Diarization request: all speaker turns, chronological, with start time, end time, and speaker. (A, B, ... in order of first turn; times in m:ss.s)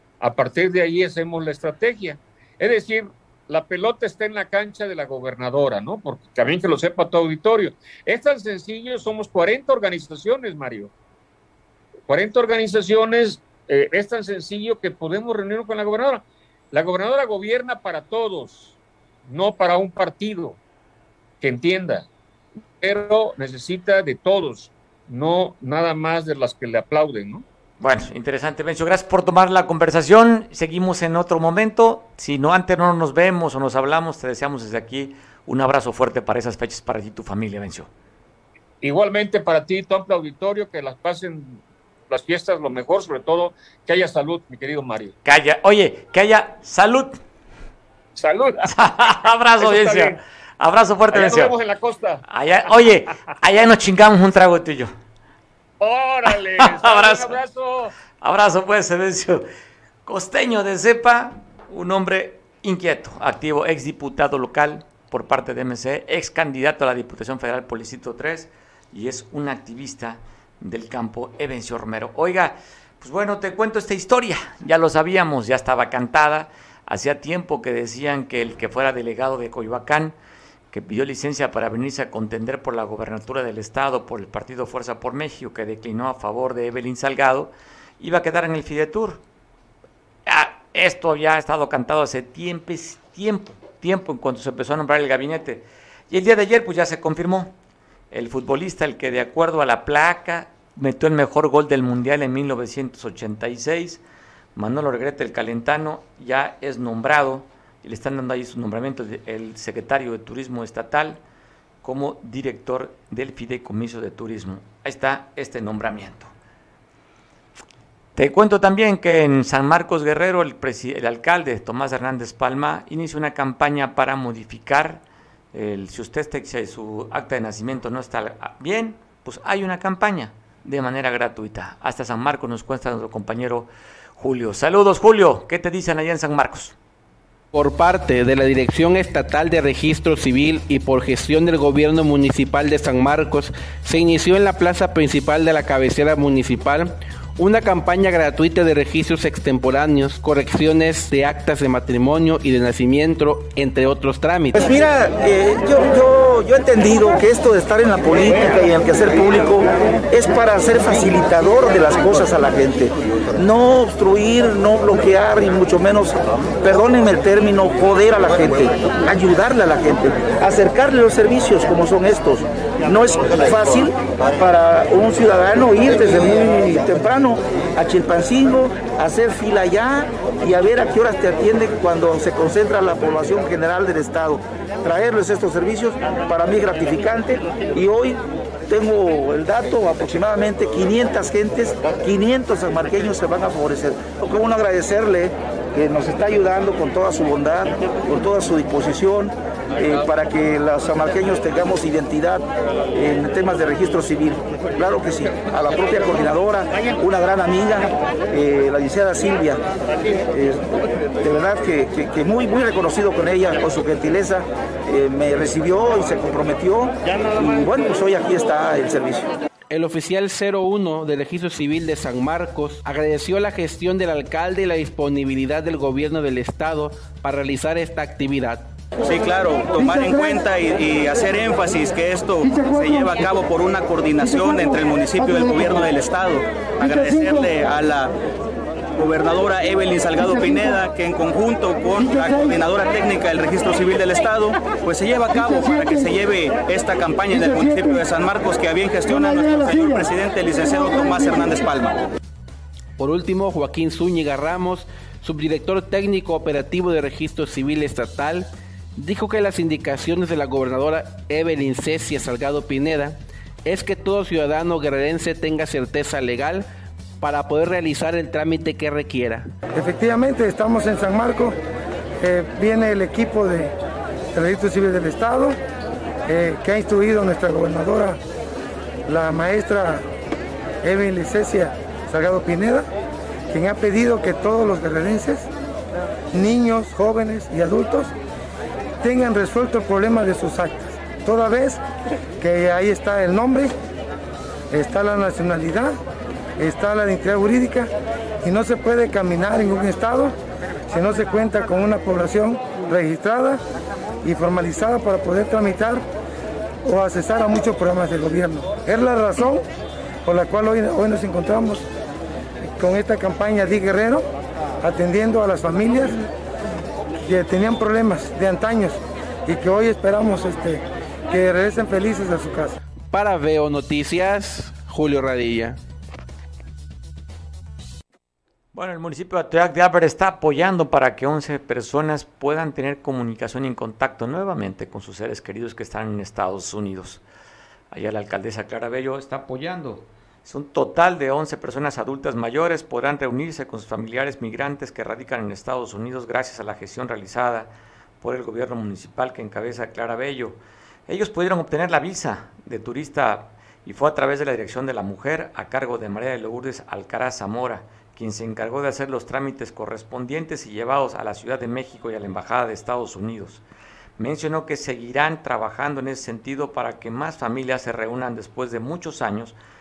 0:00.2-0:10.9 A
0:12.1-0:20.6 A
0:21.4-0:22.1 A
0:22.8-0:27.4 A
0:27.8-0:37.9 B
0:38.8-0:45.2 A
0:45.2-0:47.2 B
0:48.2-0:48.8 A
0:48.7-0:51.5 B
0:49.6-0:50.2 A
0:51.1-0:53.0 A
0:52.3-0:54.9 B
0:55.8-0:57.9 A
0:56.6-0:57.4 B
0:58.2-0:59.4 B
1:00.0-1:20.2 B
1:20.7-1:29.2 B
1:30.3-1:37.6 B
1:38.1-1:44.0 B
1:44.6-1:51.2 B
1:51.8-1:56.3 B
1:58.2-2:16.8 B
2:17.5-2:34.6 C
2:34.5-3:29.6 D
3:30.3-3:39.3 D
3:39.7-3:48.7 C
3:49.0-3:58.1 E
3:59.0-4:12.0 E
4:13.0-4:26.7 C
4:27.2-4:29.5 C
4:29.7-4:31.6 F
4:32.2-4:33.7 F
4:34.3-4:35.6 F
4:36.3-4:38.2 F
4:39.1-4:40.0 F
4:40.8-4:42.9 F
4:43.5-4:45.5 F
4:46.3-4:48.1 F
4:49.0-4:51.8 F
4:52.4-4:53.7 F
4:54.7-4:56.0 F
4:56.6-5:00.4 F
5:00.9-5:03.6 F
5:04.2-5:06.0 F
5:06.8-5:09.6 F
5:10.2-5:11.9 F
5:12.8-5:14.3 F
5:14.8-5:16.2 F
5:17.2-5:22.8 F
5:23.1-5:25.8 C
5:28.7-5:37.2 B
5:37.9-6:03.6 B
6:04.2-6:09.6 B